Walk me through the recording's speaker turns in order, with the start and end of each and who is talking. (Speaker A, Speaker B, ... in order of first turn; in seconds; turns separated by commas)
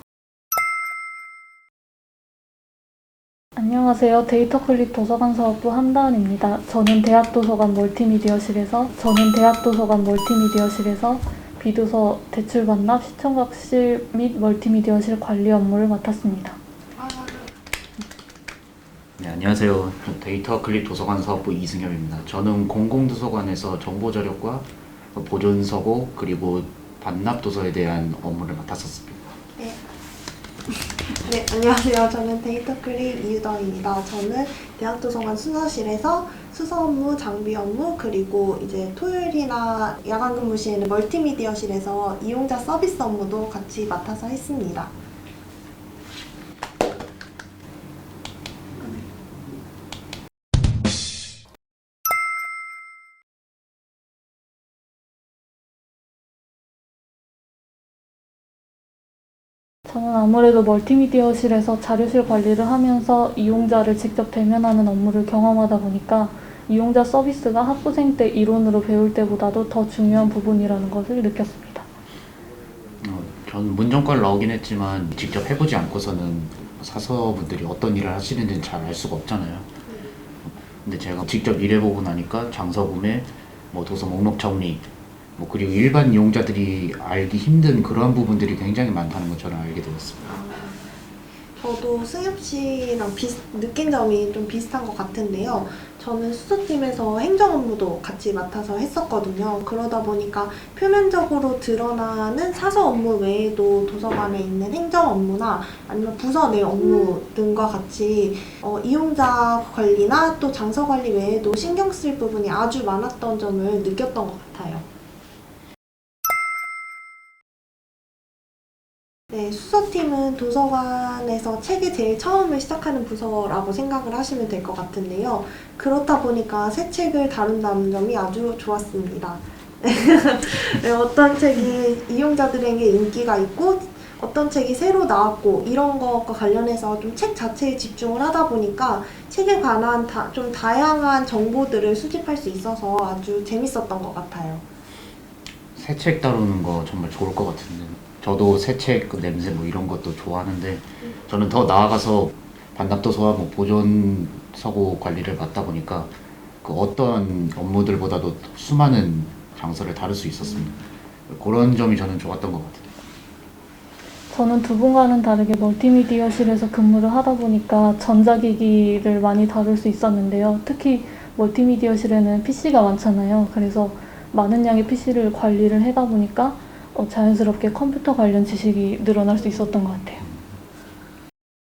Speaker A: 3.6-16.6, Speaker B: 17.0-17.5, Speaker C: 19.2-29.3, Speaker B: 31.1-44.9, Speaker A: 59.9-71.8, Speaker C: 73.0-79.7, Speaker C: 80.4-90.2, Speaker B: 90.2-90.8, Speaker B: 91.6-114.8, Speaker B: 119.3-144.6, Speaker C: 145.7-163.0, Speaker A: 164.3-180.2